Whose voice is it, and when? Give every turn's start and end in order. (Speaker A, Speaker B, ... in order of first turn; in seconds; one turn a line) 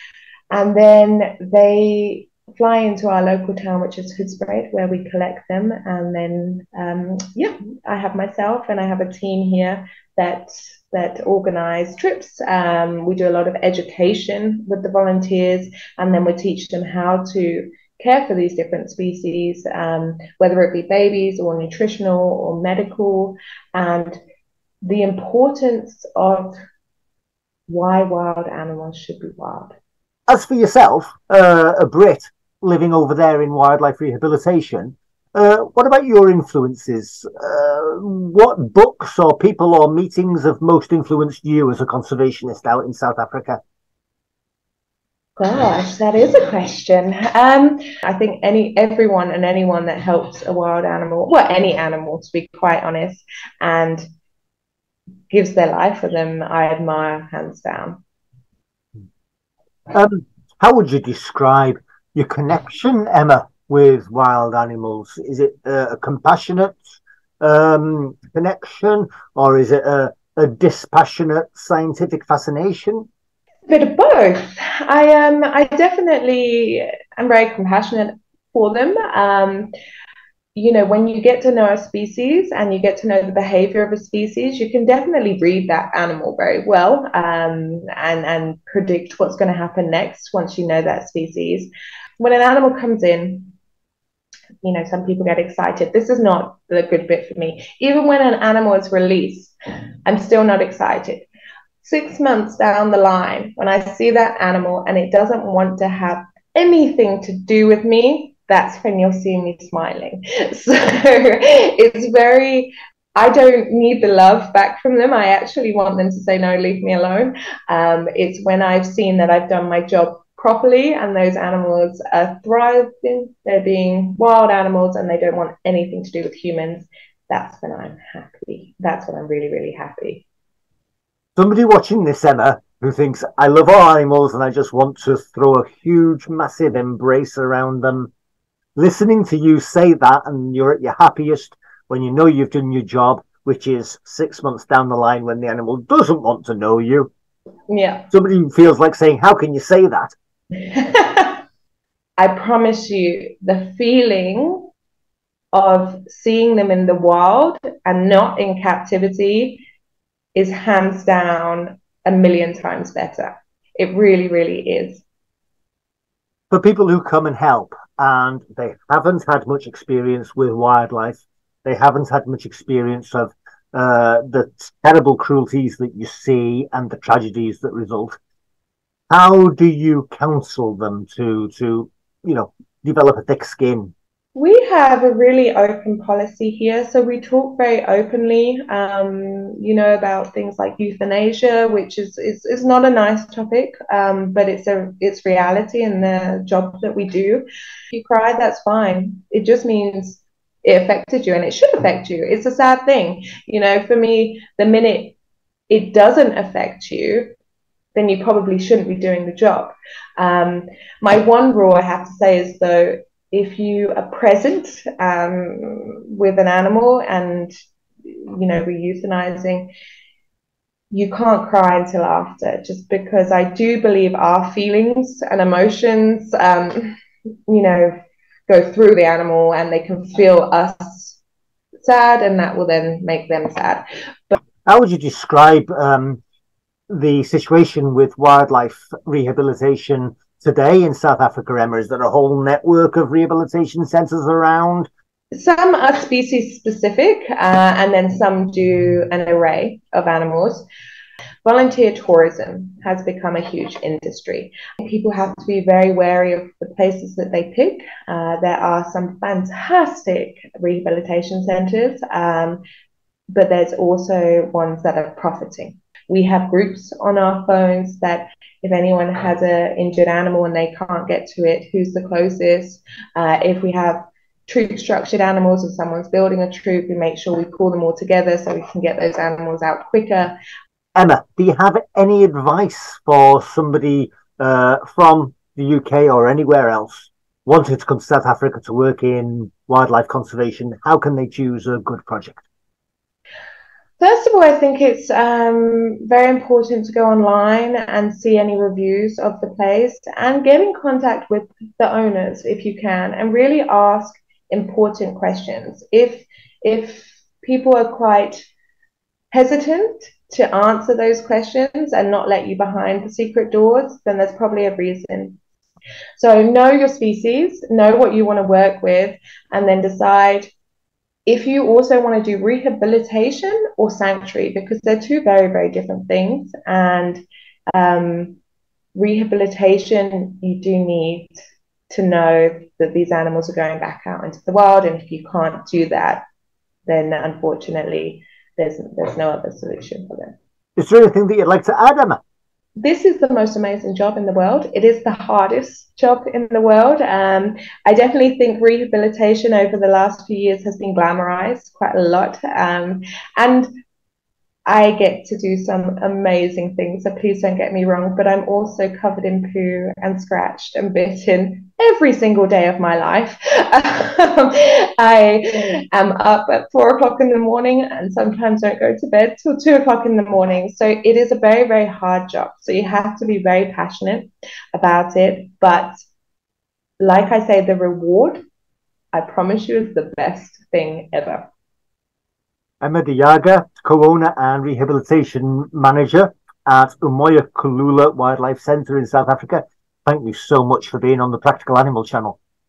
Speaker A: 0.5-24.2
Speaker A: 24.8-26.6
Speaker A: 27.7-29.8
Speaker B: 30.3-43.6
Speaker A: 45.4-54.1
Speaker A: 55.3-58.0
Speaker B: 59.9-73.1
Speaker A: 73.7-79.7
Speaker A: 80.5-93.5
Speaker A: 94.6-99.5
Speaker A: 100.1-101.3
Speaker A: 101.8-130.2
Speaker B: 131.4-138.1
Speaker B: 138.8-147.1
Speaker A: 147.7-148.1
Speaker B: 148.1-150.1
Speaker A: 150.6-151.4
Speaker A: 152.2-154.7
Speaker A: 155.5-159.6
Speaker A: 160.3-165.0
Speaker B: 166.5-178.2
Speaker B: 179.1-183.9
Speaker A: 184.4-205.2
Speaker A: 205.7-207.3
Speaker A: 207.9-217.5
Speaker A: 218.1-219.7
Speaker A: 220.9-227.0
Speaker A: 227.5-227.9
Speaker A: 228.5-231.2
Speaker A: 231.8-234.4
Speaker B: 234.7-236.2
Speaker B: 236.9-244.9
Speaker A: 245.3-250.7
Speaker A: 251.4-262.6
Speaker A: 263.3-280.4
Speaker B: 280.9-292.4
Speaker A: 294.0-308.4
Speaker A: 309.3-315.4
Speaker A: 316.2-320.5
Speaker A: 321.3-327.2
Speaker A: 327.7-328.4
Speaker A: 328.9-331.4
Speaker A: 331.9-336.2
Speaker A: 336.9-340.4
Speaker B: 340.8-342.2
Speaker A: 342.8-353.7
Speaker A: 354.7-376.0
Speaker A: 377.0-378.4
Speaker A: 379.1-381.5
Speaker B: 382.8-392.4